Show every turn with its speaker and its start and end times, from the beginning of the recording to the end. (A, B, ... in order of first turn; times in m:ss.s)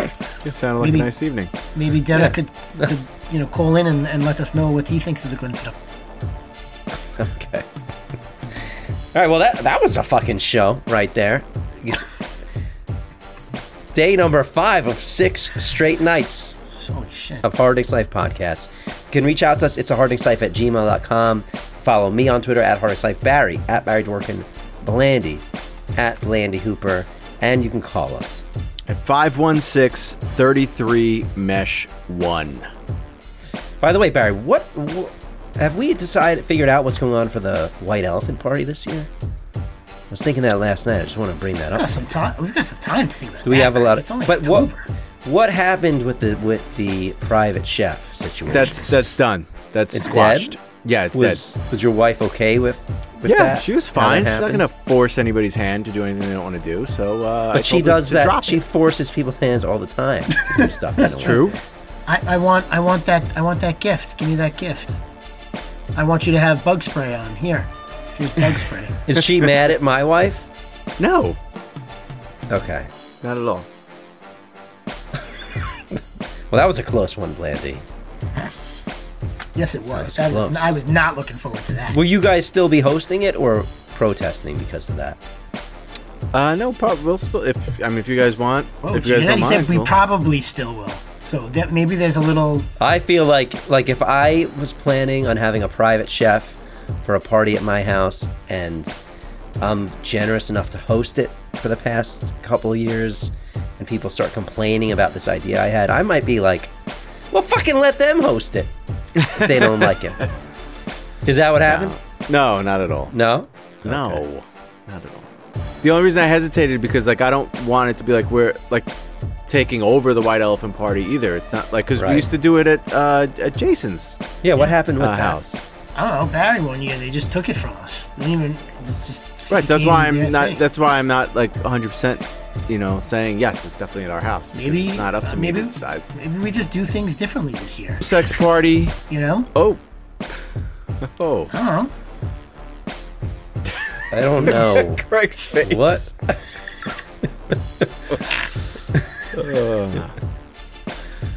0:00.4-0:01.5 A
0:00.8-0:01.1 B
0:01.7-0:05.8 B
0:02.1-0:02.9 C
0:07.2-0:07.6 C
0:09.1-0:12.1 C
0:13.9-0:16.6 C
0:16.7-0:17.4 B
0:17.4-0:25.4 C
0:26.0-0:28.4 C
0:28.9-0:32.7 A
0:33.8-0:39.1 C
0:40.1-0:41.9 C
0:41.7-0:44.8 B
0:43.4-0:44.7 C
0:45.2-0:48.9 C
0:48.5-0:51.4 A
0:49.9-0:50.6 C
0:51.1-0:54.6 C
0:53.2-0:58.6 A
0:57.5-1:01.4 C
1:00.5-1:01.4 B
1:01.2-1:01.6 A
1:02.1-1:05.0 B
1:05.9-1:08.9 B
1:09.1-1:10.5 C
1:11.0-1:11.4 A
1:12.5-1:12.9 C
1:13.2-1:13.7 A
1:16.5-1:17.8 C
1:19.6-1:22.0 B
1:19.9-1:20.8 C
1:21.9-1:25.2 C
1:26.3-1:29.9 A
1:28.8-1:32.7 B
1:32.8-1:38.9 C
1:39.6-1:46.7 C
1:47.3-1:48.7 C
1:49.2-1:49.9 A
1:49.3-1:50.2 C
1:51.2-1:52.0 C
1:51.6-1:53.1 A
1:53.1-1:54.2 C
1:53.8-1:55.3 A
1:55.8-1:58.9 A
1:59.5-2:04.2 A
2:02.0-2:02.2 C
2:04.4-2:05.4 C
2:05.0-2:05.6 A
2:06.0-2:10.6 B
2:09.5-2:16.0 A
2:14.5-2:18.0 B
2:18.0-2:19.0 A
2:19.1-2:19.5 B
2:19.5-2:19.8 A
2:21.0-2:21.5 A
2:21.5-2:21.9 B
2:23.6-2:26.1 A
2:24.1-2:25.0 C
2:25.6-2:26.4 C
2:29.3-2:30.1 A